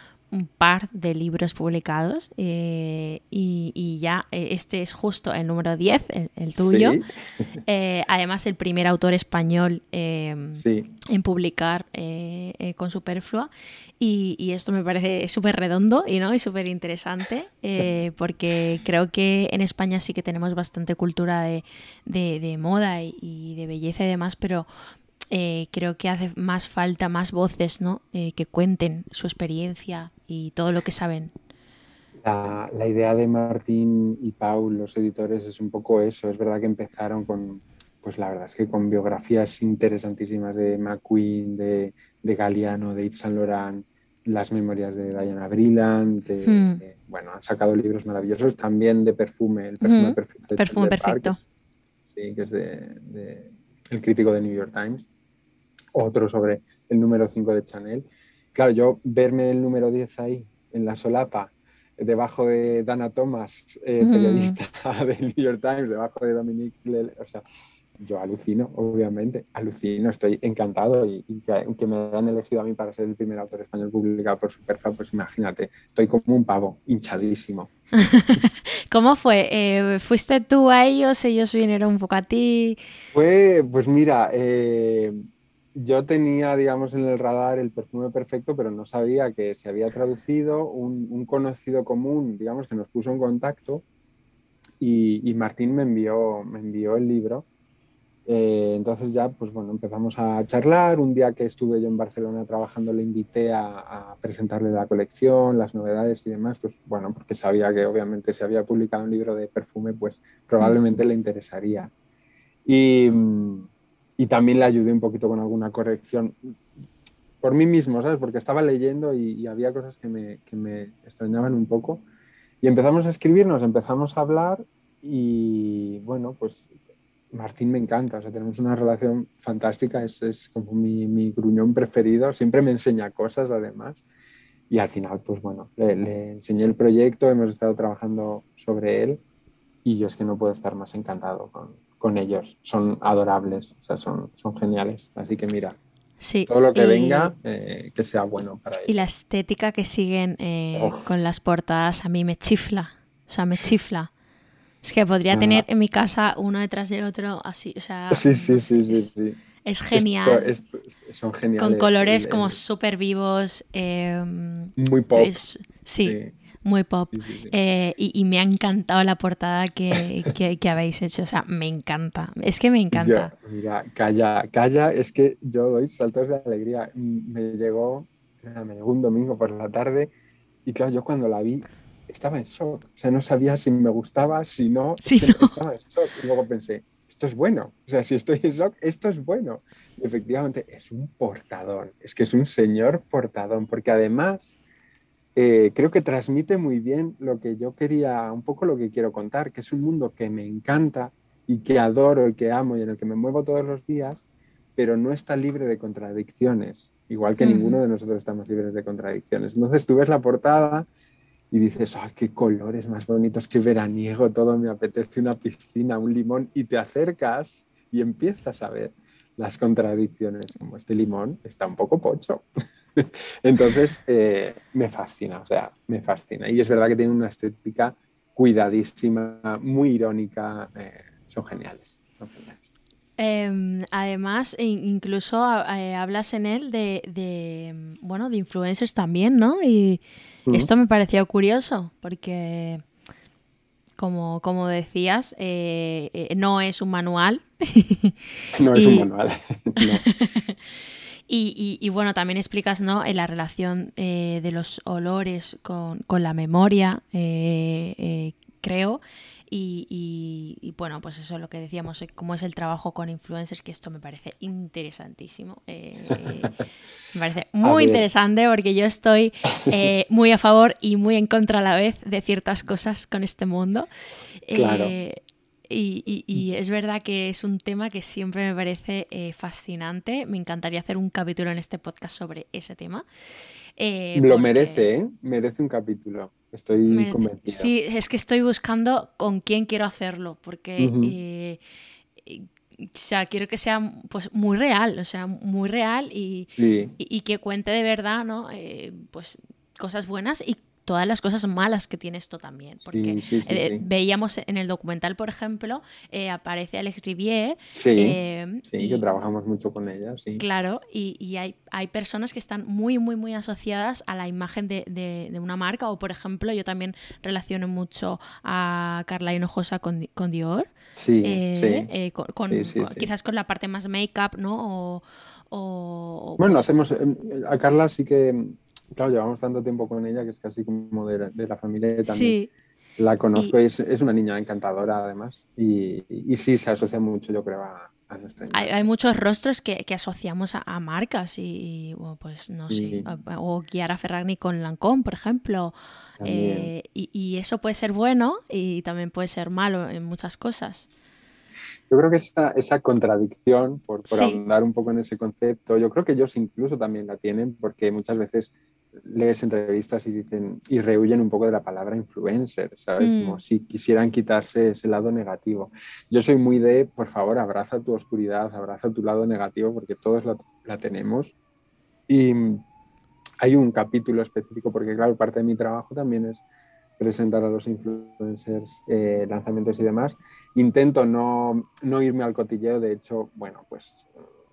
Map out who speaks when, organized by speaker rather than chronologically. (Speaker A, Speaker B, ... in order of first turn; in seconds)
Speaker A: 0.3-7.0, 7.7-24.7, 25.3-31.3, 46.5-46.8, 49.8-51.4, 64.0-64.6, 78.0-82.8, 146.2-147.3, 148.9-154.1, 154.8-159.1, 159.7-160.5, 161.6-173.3, 185.0-185.6, 207.4-207.8, 233.2-242.8, 244.0-248.2, 248.7-249.1, 249.8-250.5, 251.3-266.5, 267.1-273.9, 274.4-283.1, 283.8-284.9, 286.9-291.6, 292.2-309.0, 310.4-320.7, 321.2-326.7, 332.1-332.5, 338.5-350.9, 354.1-354.4, 363.0-363.4
Speaker B: 6.6-7.5, 10.6-10.9, 32.2-51.4, 52.1-55.1, 55.9-67.4, 68.0-77.8, 83.1-85.2, 85.8-93.8, 94.8-97.5, 98.3-111.9, 112.7-116.5, 117.4-122.0, 122.6-126.7, 127.3-134.0, 134.7-139.2, 139.8-145.8, 146.5-149.1, 150.8-151.0, 155.3-155.7, 158.1-159.4, 159.9-162.6, 164.8-165.5, 166.0-166.3, 167.1-167.6, 169.9-170.3, 172.9-180.1, 180.7-194.6, 195.3-204.2, 204.8-210.9, 211.5-232.6, 248.5-250.0, 267.6-268.1, 274.5-274.9, 284.1-287.7, 290.8-291.2, 296.5-297.0, 302.8-303.9, 307.8-310.4, 321.0-321.9, 322.5-323.1, 326.4-332.4, 333.0-338.9, 342.6-343.1, 346.2-346.7, 351.9-371.4, 372.1-372.6, 373.4-376.4, 377.0-384.2